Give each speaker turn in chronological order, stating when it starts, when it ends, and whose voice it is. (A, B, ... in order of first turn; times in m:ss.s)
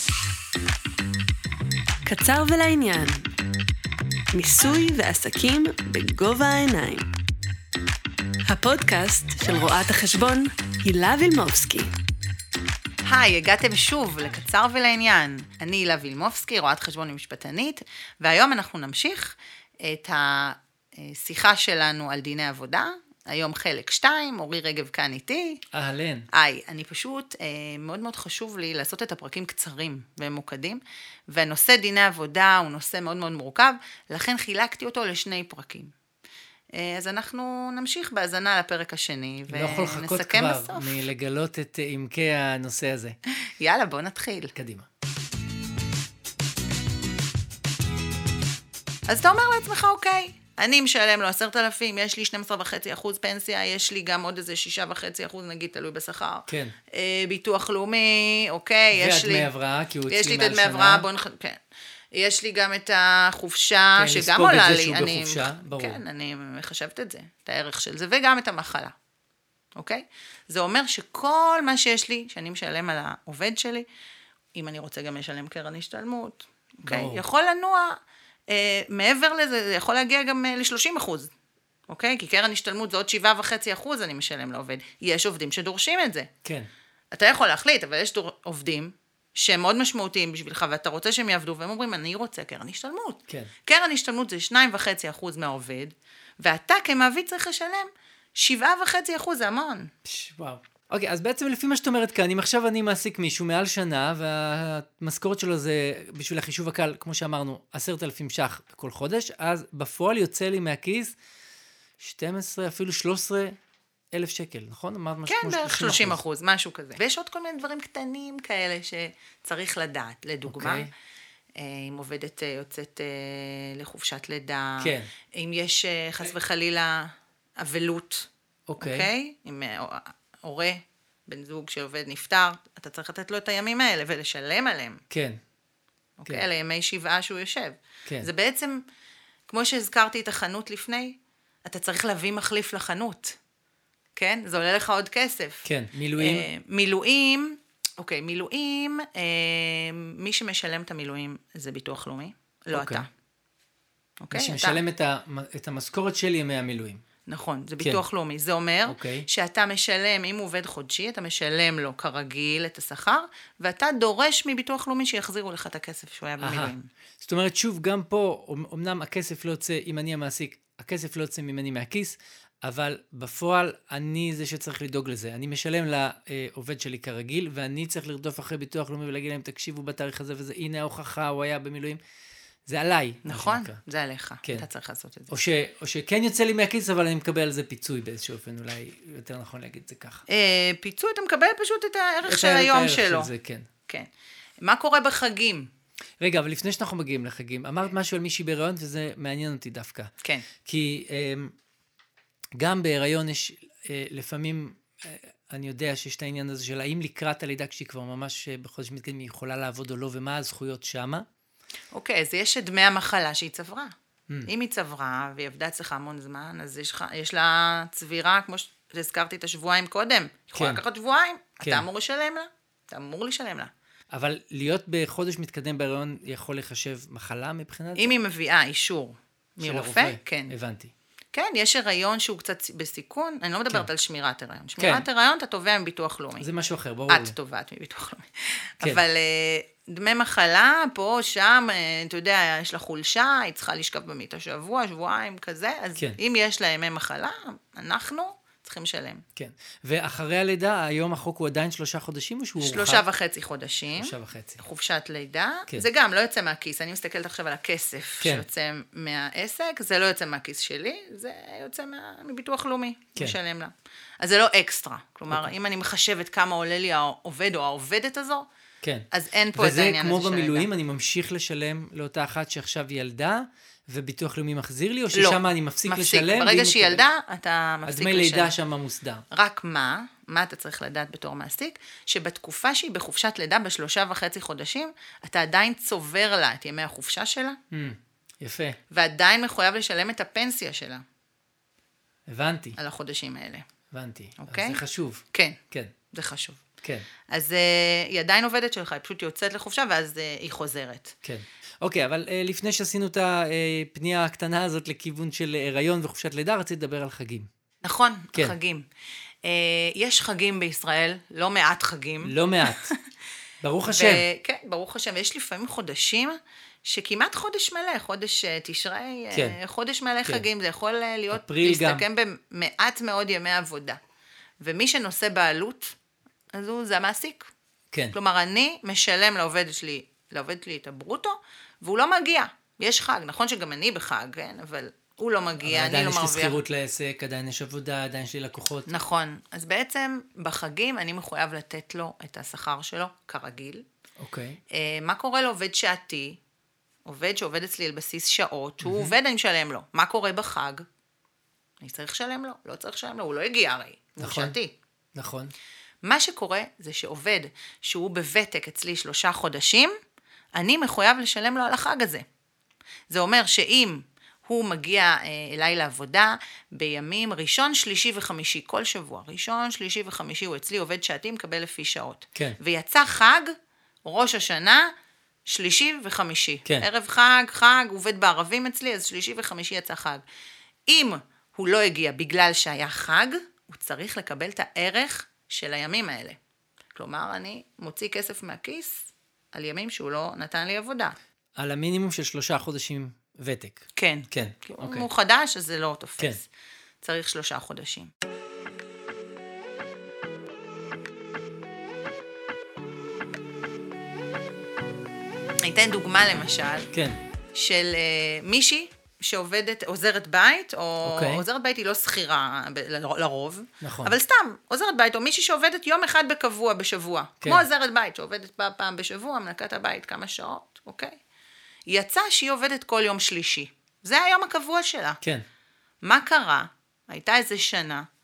0:02.0-0:03.3 A
0:04.3-0:07.1 A
0:08.4-0:11.9 A
0:13.0-0:25.6 B
0:25.7-0:26.3 C
0:26.3-0:35.9 B
0:36.7-0:40.9 B
0:39.5-0:43.2 C
0:43.4-0:44.5 B
0:44.5-0:44.8 C
0:49.1-0:59.5 B
0:56.5-0:56.7 C
0:58.9-1:01.1 C
1:00.1-1:01.6 B
1:02.1-1:08.9 B
1:04.0-1:06.0 C
1:09.8-1:13.9 B
1:14.5-1:18.0 B
1:16.8-1:17.2 C
1:18.5-1:21.3 B
1:21.9-1:26.3 B
1:26.4-1:26.7 C
1:27.1-1:39.9 B
1:40.0-1:51.1 C
1:52.0-1:53.6 C
1:54.1-1:56.2 C
1:55.2-2:00.9 B
2:00.5-2:00.9 C
2:01.6-2:15.0 B
2:04.8-2:05.1 C
2:08.7-2:09.1 C
2:15.1-2:15.4 C
2:16.2-2:18.8 B
2:19.5-2:23.4 B
2:24.1-2:33.1 B
2:25.6-2:26.5 C
2:32.7-2:33.0 C
2:34.2-2:34.8 B
2:34.3-2:37.0 C
2:37.3-2:46.9 B
2:38.8-2:39.3 C
2:46.4-3:02.0 C
3:02.6-3:03.8 C
3:03.2-3:05.4 B
3:05.3-3:10.2 C
3:10.3-3:13.3 B
3:12.2-3:13.6 C
3:14.6-3:15.7 B
3:16.2-3:20.1 C
3:20.2-3:20.5 B
3:20.6-3:21.5 C
3:22.6-3:31.2 C
3:31.9-3:33.9 B
3:34.4-3:43.7 B
3:40.5-3:40.8 C
3:41.6-3:41.9 C
3:44.1-3:48.1 C
3:48.0-3:50.5 B
3:49.6-3:50.9 C
3:51.3-3:56.5 B
3:54.8-3:55.1 C
3:56.4-3:57.3 C
3:57.1-4:09.2 B
4:09.4-4:13.0 C
4:12.6-4:28.5 B
4:14.0-4:14.6 C
4:18.2-4:18.4 C
4:28.8-4:37.0 C
4:29.1-4:30.7 B
4:35.1-4:38.5 B
4:37.8-4:39.2 C
4:39.3-4:47.6 B
4:47.7-4:48.8 C
4:48.9-4:51.0 B
4:52.3-4:52.8 C
4:52.8-4:53.7 B
4:53.9-4:55.9 C
4:54.4-4:55.6 B
4:56.1-4:56.6 B
4:57.3-5:01.2 B
5:01.2-5:07.5 C
5:07.8-5:08.9 B
5:09.4-5:13.0 B
5:12.2-5:12.9 C
5:13.6-5:14.2 C
5:13.8-5:24.0 B
5:19.3-5:19.6 C
5:21.3-5:22.0 C
5:24.6-5:25.9 B
5:26.5-5:27.5 B
5:28.1-5:36.6 B
5:35.6-5:38.9 C
5:38.8-5:43.8 B
5:44.2-5:44.6 C
5:44.7-5:46.4 B
5:47.0-5:50.8 B
5:48.8-5:49.1 C
5:51.8-5:54.7 B
5:54.2-5:54.6 C
5:55.1-5:55.5 C
5:56.0-5:59.9 B
6:00.5-6:02.2 B
6:03.1-6:14.9 B
6:15.4-6:20.2 B
6:20.9-6:26.4 B
6:26.9-6:31.1 B
6:31.6-6:35.1 C
6:33.9-6:36.5 B
6:37.0-6:38.1 B
6:45.6-6:46.9 B
6:46.9-6:47.2 C
6:47.5-7:01.2 B
6:51.0-6:51.4 C
6:53.8-6:54.2 C
7:01.9-7:05.2 B
7:06.0-7:08.0 B